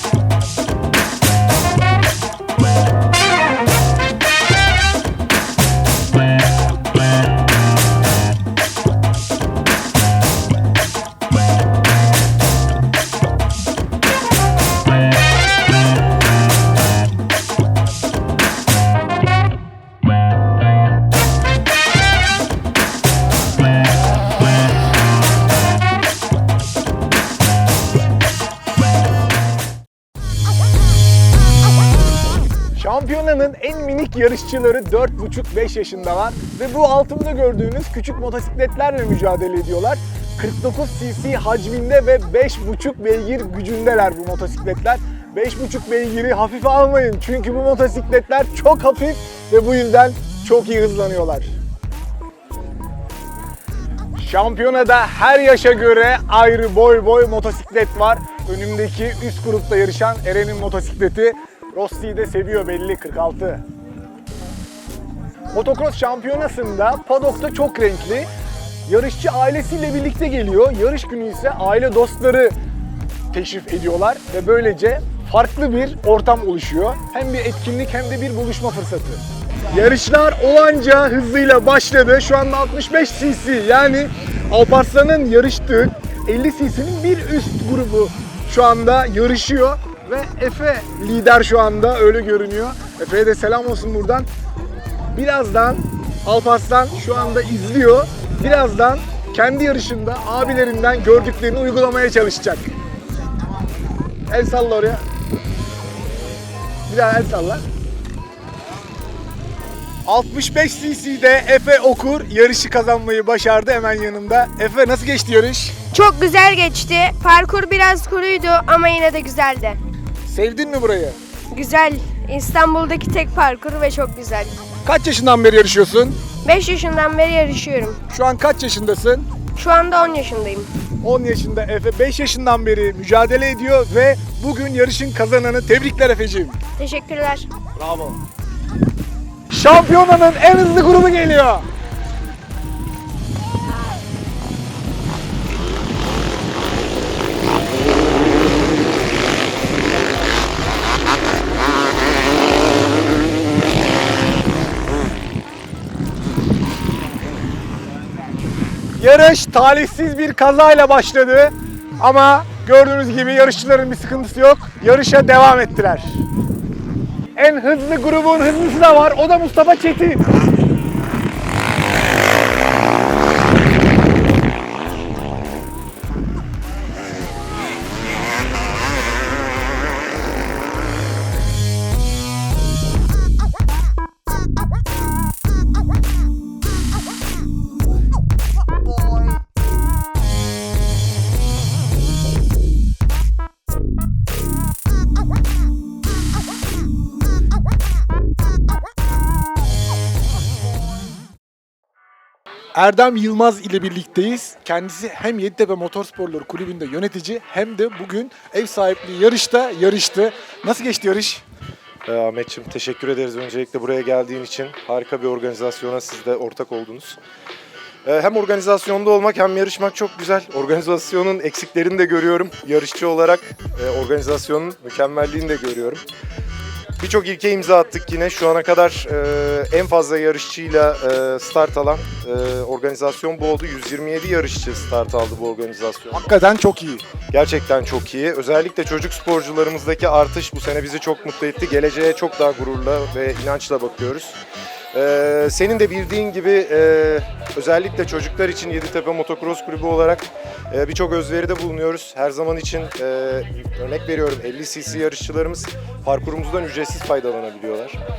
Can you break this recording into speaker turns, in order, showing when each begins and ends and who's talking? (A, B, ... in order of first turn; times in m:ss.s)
0:32.8-0:51.5 A
0:54.2-1:03.6 A
1:05.5-1:08.3 A
1:08.9-1:12.6 A
1:13.3-1:34.3 A
1:35.1-1:42.7 A
1:44.3-1:45.0 A
1:46.9-1:47.6 A
1:50.1-1:55.7 A
1:55.9-1:59.8 B
2:00.3-2:01.2 A
2:01.5-2:04.6 B
2:04.8-2:06.2 A
2:06.4-2:08.0 B
2:08.1-2:09.2 A
2:09.6-2:10.7 B
2:11.0-2:16.6 A
2:16.8-2:17.5 B
2:17.8-2:18.2 A
2:19.5-2:21.6 A
2:39.0-2:46.2 A
2:47.4-2:50.2 A
3:22.8-3:31.4 A
3:32.1-3:37.2 C
3:38.0-3:46.0 C
3:47.0-3:56.3 C
3:56.1-3:57.0 A
3:57.3-4:04.4 C
4:04.9-4:18.0 C